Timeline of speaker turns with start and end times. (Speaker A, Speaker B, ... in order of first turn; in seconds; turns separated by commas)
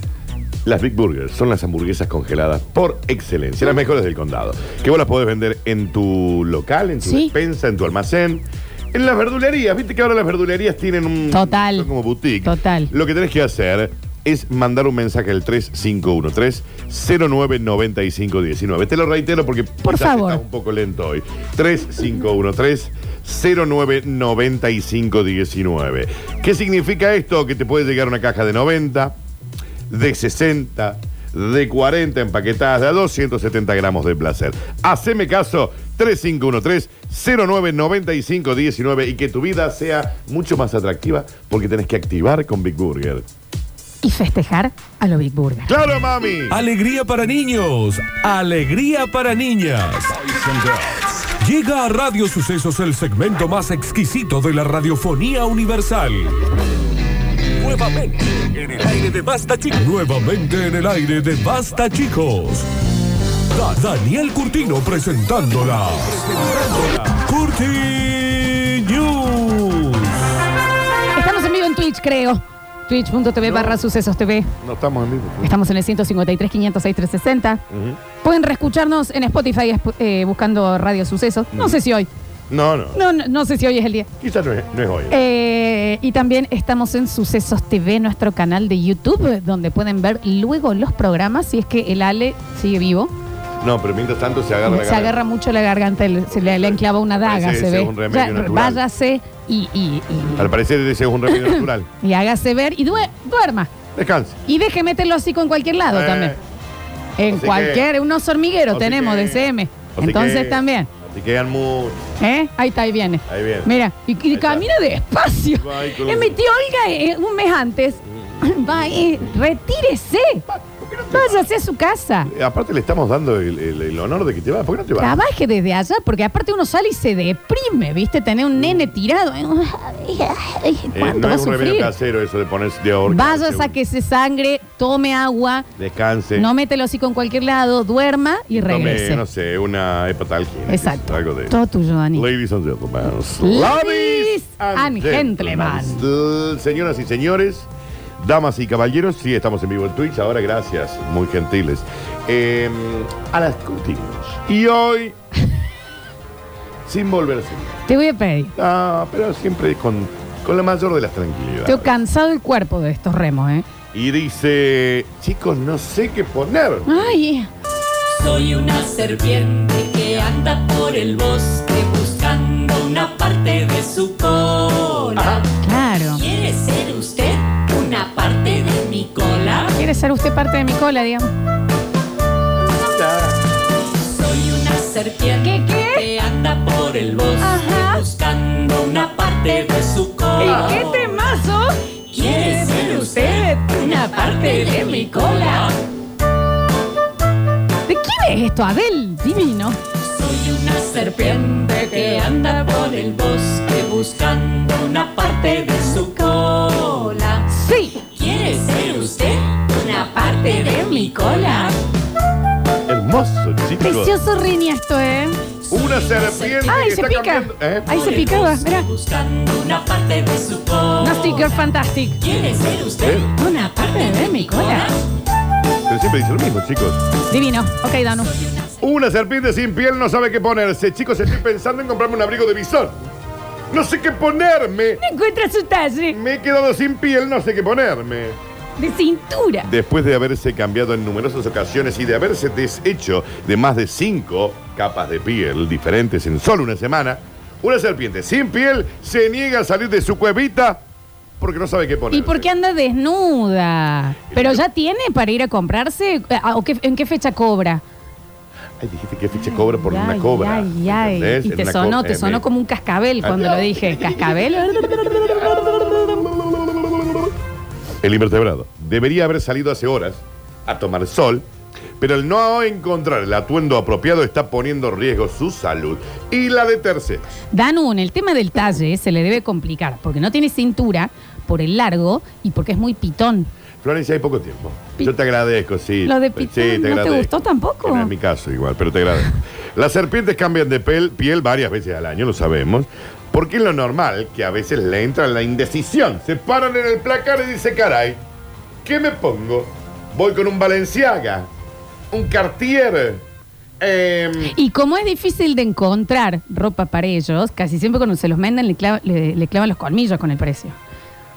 Speaker A: 0.6-29.1, Speaker B: 7.0-7.3, Speaker B: 11.3-11.9, Speaker B: 12.4-12.9, Speaker B: 19.8-20.4, Speaker A: 29.9-43.3, Speaker B: 44.0-45.7, Speaker A: 45.7-46.6, Speaker C: 46.5-56.4, Speaker C: 57.6-62.7, Speaker C: 63.5-70.2, Speaker B: 71.1-74.5, Speaker A: 73.4-73.8, Speaker A: 74.6-75.5, Speaker B: 75.4-77.6, Speaker A: 77.7-78.0, Speaker B: 78.2-82.1, Speaker A: 82.5-83.0, Speaker B: 82.9-84.1, Speaker A: 84.2-85.2, Speaker B: 85.1-93.1, Speaker A: 93.6-95.2, Speaker B: 94.7-100.5, Speaker A: 96.3-98.8, Speaker A: 100.4-101.9, Speaker B: 101.3-103.7, Speaker A: 103.9-104.4, Speaker B: 104.5-106.4, Speaker A: 105.9-106.4, Speaker B: 107.2-110.9, Speaker A: 107.3-107.8, Speaker A: 108.7-112.0, Speaker B: 112.2-120.4, Speaker A: 113.3-113.7, Speaker A: 114.3-114.6, Speaker A: 115.6-116.3, Speaker A: 118.2-118.7, Speaker A: 120.5-121.4, Speaker B: 121.1-122.3, Speaker A: 122.3-125.2, Speaker B: 125.0-131.9, Speaker A: 130.9-133.7, Speaker B: 133.1-135.7, Speaker A: 135.8-136.5, Speaker B: 136.3-139.2, Speaker A: 138.5-141.5, Speaker B: 140.7-142.3, Speaker A: 142.1-147.7, Speaker B: 143.4-146.0, Speaker A: 148.2-155.1, Speaker A: 156.8-157.8, Speaker B: 157.9-158.5, Speaker A: 158.6-161.9, Speaker B: 161.7-163.7, Speaker A: 163.9-167.1, Speaker B: 166.8-167.5, Speaker D: 168.1-175.5, Speaker A: 175.2-175.4, Speaker B: 175.6-176.2, Speaker D: 176.1-179.8, Speaker B: 179.7-181.3, Speaker A: 182.6-183.4, Speaker D: 184.0-191.2, Speaker B: 185.4-186.1, Speaker B: 187.4-188.0, Speaker B: 190.4-195.7, Speaker A: 190.5-190.8, Speaker D: 192.1-195.8, Speaker B: 197.9-199.8, Speaker D: 200.0-207.5, Speaker B: 200.9-202.4, Speaker B: 207.5-208.0, Speaker D: 208.0-211.8, Speaker B: 210.1-211.7, Speaker A: 212.9-214.1, Speaker B: 213.8-215.4, Speaker D: 215.7-216.8, Speaker A: 215.7-217.9, Speaker B: 216.7-218.9, Speaker D: 217.9-221.6, Speaker B: 221.0-222.2, Speaker D: 222.2-225.0, Speaker A: 223.0-223.3, Speaker B: 223.3-224.9, Speaker A: 225.9-227.0, Speaker B: 227.3-228.5, Speaker A: 228.8-233.0, Speaker A: 233.7-235.0, Speaker B: 235.0-236.2, Speaker A: 236.1-238.4, Speaker B: 238.8-239.7, Speaker A: 239.6-250.8, Speaker A: 251.4-252.5, Speaker B: 252.1-257.8, Speaker A: 254.3-254.6, Speaker A: 258.8-262.4, Speaker B: 259.3-265.4, Speaker A: 263.2-267.3, Speaker A: 268.0-271.4, Speaker A: 272.0-277.3, Speaker B: 277.5-283.5, Speaker A: 283.8-287.3, Speaker B: 286.0-288.1, Speaker A: 287.8-298.2, Speaker A: 298.8-301.5, Speaker A: 302.1-303.2, Speaker A: 303.8-304.5, Speaker B: 304.4-310.8